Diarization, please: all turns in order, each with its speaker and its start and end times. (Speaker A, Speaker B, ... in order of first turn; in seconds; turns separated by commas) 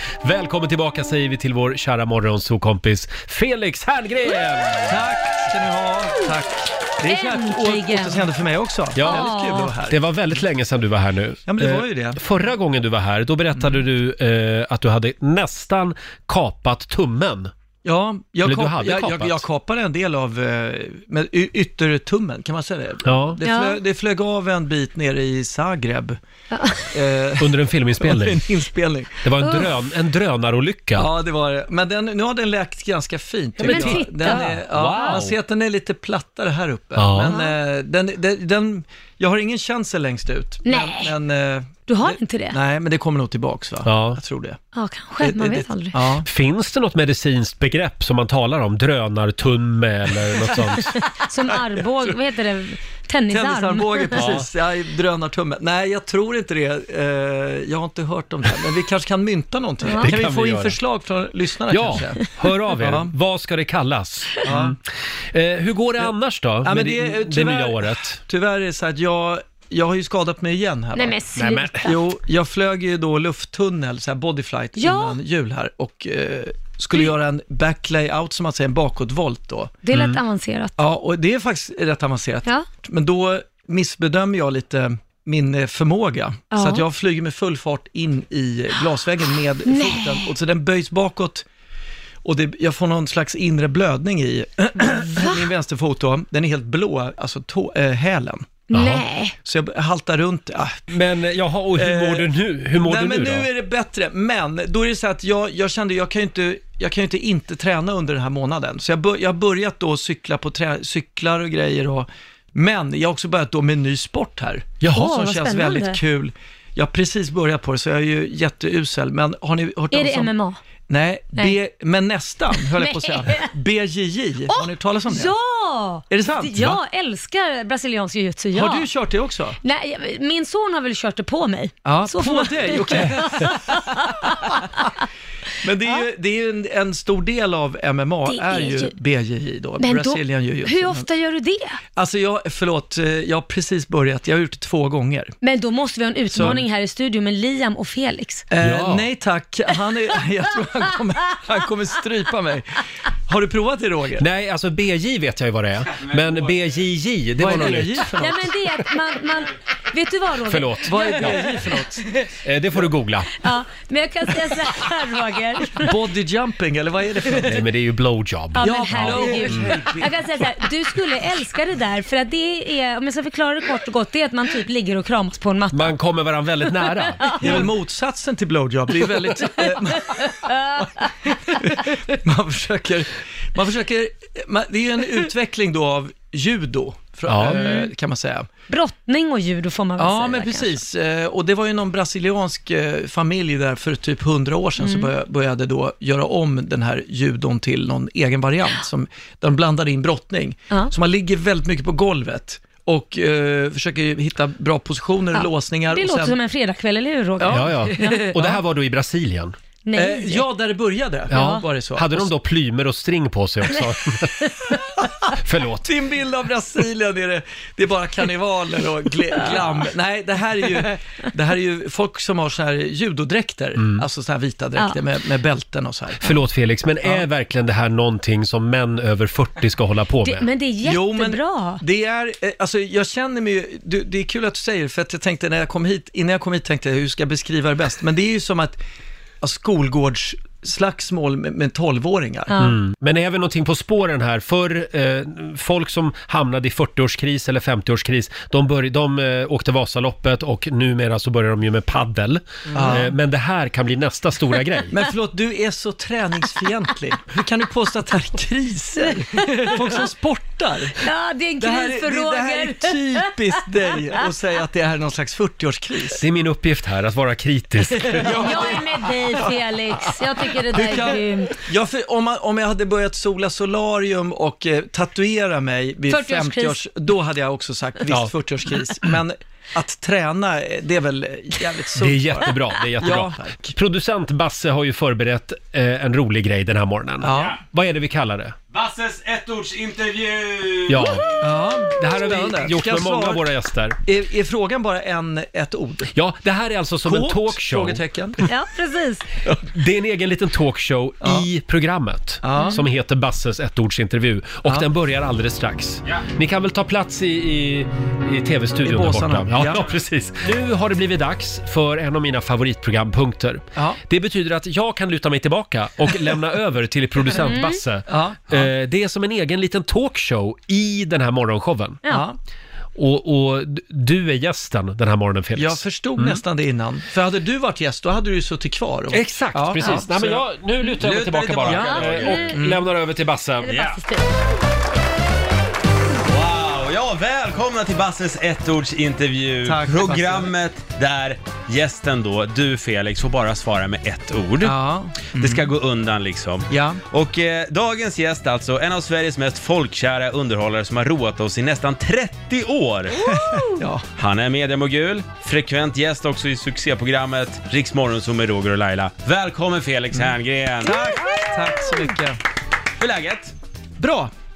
Speaker A: 0.2-5.0, Speaker B: 4.9-10.0, Speaker C: 7.0-8.3, Speaker A: 8.9-17.5, Speaker C: 9.0-9.7, Speaker B: 11.5-12.2, Speaker B: 17.8-26.2, Speaker A: 18.4-19.4, Speaker A: 23.0-23.4, Speaker C: 23.4-23.8, Speaker C: 26.5-26.9, Speaker B: 26.9-29.2, Speaker A: 27.4-28.4, Speaker A: 29.2-31.1, Speaker C: 29.4-29.7, Speaker B: 30.9-44.6, Speaker A: 33.6-35.3, Speaker C: 33.6-35.2, Speaker A: 37.0-37.3, Speaker C: 40.6-41.1, Speaker C: 41.9-42.6, Speaker A: 43.8-44.2, Speaker C: 44.7-46.0, Speaker B: 45.2-46.3, Speaker A: 46.2-51.0, Speaker C: 51.0-54.3, Speaker B: 53.3-63.1, Speaker A: 54.1-54.4, Speaker A: 59.9-60.8, Speaker A: 61.7-64.8, Speaker B: 64.4-64.8, Speaker A: 65.3-68.2, Speaker B: 66.6-71.2, Speaker C: 70.9-71.9, Speaker A: 71.3-71.9, Speaker B: 71.8-79.7, Speaker C: 74.8-75.2, Speaker C: 79.8-80.7, Speaker A: 79.9-80.2, Speaker B: 80.8-91.4, Speaker C: 86.5-86.8, Speaker C: 89.7-90.3, Speaker B: 92.2-98.6, Speaker C: 95.1-95.4, Speaker C: 98.7-99.3, Speaker A: 98.7-99.0, Speaker B: 99.4-100.8, Speaker A: 100.9-103.5, Speaker B: 101.7-120.3, Speaker C: 114.8-116.0, Speaker C: 119.9-120.6, Speaker B: 120.9-125.3, Speaker C: 122.5-123.5, Speaker C: 124.5-128.9, Speaker B: 126.1-126.7, Speaker B: 128.5-129.6, Speaker C: 129.6-135.0, Speaker B: 131.8-133.5, Speaker B: 135.6-141.1, Speaker C: 138.2-138.9, Speaker C: 139.8-141.8, Speaker B: 141.9-145.3, Speaker C: 145.4-148.4, Speaker B: 146.3-146.6, Speaker B: 148.5-152.7, Speaker A: 148.6-149.1, Speaker B: 153.3-154.2, Speaker A: 154.2-158.1, Speaker D: 155.9-156.5, Speaker B: 157.4-158.5, Speaker C: 158.2-161.4, Speaker A: 160.4-161.4, Speaker B: 160.8-162.1, Speaker A: 162.4-163.3, Speaker C: 163.4-166.0, Speaker B: 165.8-167.6, Speaker A: 167.4-169.8, Speaker C: 168.5-175.9, Speaker B: 168.6-170.4, Speaker A: 175.7-177.7, Speaker C: 177.2-177.7, Speaker B: 177.4-180.3, Speaker C: 180.1-181.3, Speaker B: 181.4-188.5, Speaker A: 187.3-187.7, Speaker C: 187.4-187.9, Speaker C: 188.7-190.8, Speaker B: 190.0-206.4, Speaker C: 194.8-195.1, Speaker C: 205.3-208.4, Speaker B: 207.4-208.6, Speaker A: 207.5-209.5, Speaker C: 209.8-210.4, Speaker B: 209.9-212.3, Speaker C: 211.3-211.6, Speaker A: 211.3-214.4, Speaker C: 213.7-214.8, Speaker A: 215.4-215.9, Speaker B: 215.8-226.4, Speaker A: 223.8-224.0, Speaker A: 226.2-230.5, Speaker C: 230.2-231.8, Speaker B: 230.8-238.8, Speaker B: 239.4-242.5, Speaker C: 242.5-242.8, Speaker A: 242.6-254.9, Speaker B: 252.7-253.1, Speaker B: 254.9-261.0, Speaker C: 259.3-259.7, Speaker C: 261.0-263.2, Speaker B: 261.6-266.2, Speaker A: 266.1-268.6, Speaker B: 268.0-269.5, Speaker C: 268.2-271.6, Speaker B: 270.7-283.7, Speaker C: 276.1-276.8, Speaker A: 278.1-278.3, Speaker A: 282.0-288.6, Speaker B: 287.2-287.6, Speaker D: 287.3-287.6, Speaker D: 288.7-291.2, Speaker A: 290.9-291.2, Speaker B: 291.4-293.5, Speaker A: 291.9-294.0, Speaker B: 294.0-296.1, Speaker A: 296.1-298.0, Speaker B: 297.0-298.4, Speaker C: 298.4-299.2, Speaker A: 299.6-322.0, Speaker B: 301.2-301.5, Speaker B: 302.4-302.8, Speaker B: 308.8-309.9, Speaker B: 313.7-314.0, Speaker C: 317.4-317.7, Speaker B: 318.1-318.7, Speaker B: 322.1-322.4, Speaker A: 322.9-326.4, Speaker B: 325.5-330.4, Speaker A: 329.1-333.7, Speaker D: 330.9-332.6, Speaker B: 331.6-332.8, Speaker C: 332.0-332.6, Speaker C: 333.6-334.3, Speaker D: 333.6-334.0, Speaker D: 336.2-344.8, Speaker B: 339.6-340.5, Speaker B: 344.6-345.7, Speaker D: 345.3-353.3, Speaker B: 346.7-347.0, Speaker B: 353.2-354.0, Speaker C: 353.3-353.8, Speaker D: 354.1-361.0, Speaker B: 360.1-362.4, Speaker D: 363.0-363.5, Speaker B: 364.0-364.3